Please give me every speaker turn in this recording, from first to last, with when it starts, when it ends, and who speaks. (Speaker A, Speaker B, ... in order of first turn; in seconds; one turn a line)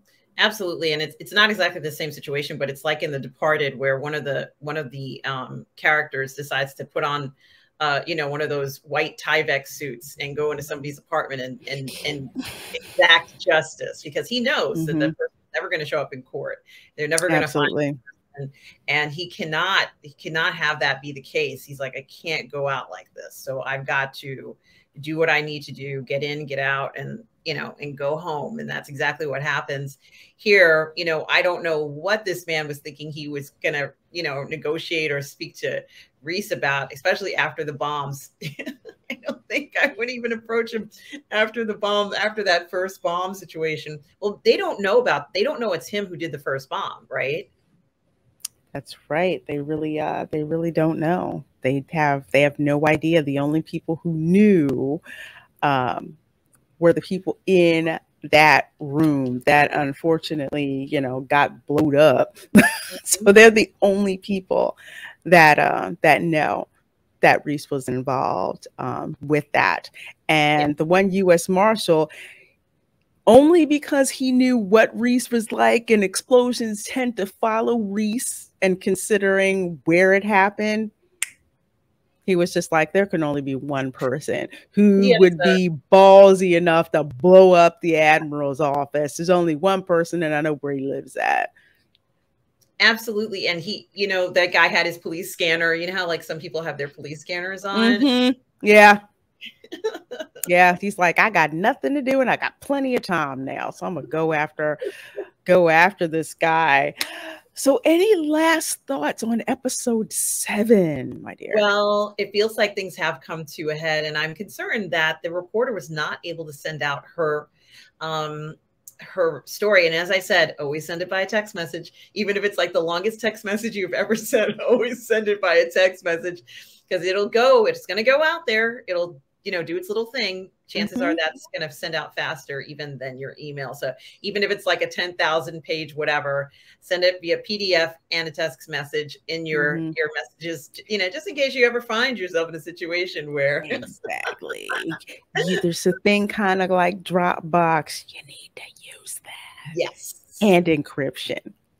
Speaker A: 0.4-17.8
Speaker B: 14.8-15.1
Speaker B: 17.3-18.0
Speaker A: 18.3-47.5
Speaker B: 48.7-55.0
Speaker B: 55.6-56.2
Speaker B: 56.8-66.7
Speaker A: 62.9-63.3
Speaker B: 67.2-72.1
Speaker B: 73.3-80.9
Speaker B: 82.3-91.5
Speaker A: 85.0-85.6
Speaker A: 92.8-98.1
Speaker B: 97.7-99.0
Speaker A: 99.7-100.3
Speaker B: 100.5-104.8
Speaker B: 105.5-107.0
Speaker B: 107.5-111.7
Speaker A: 111.5-117.5
Speaker A: 118.0-144.0
Speaker B: 130.8-131.2
Speaker B: 139.5-139.9
Speaker B: 143.7-149.6
Speaker A: 149.7-150.5
Speaker B: 150.4-151.5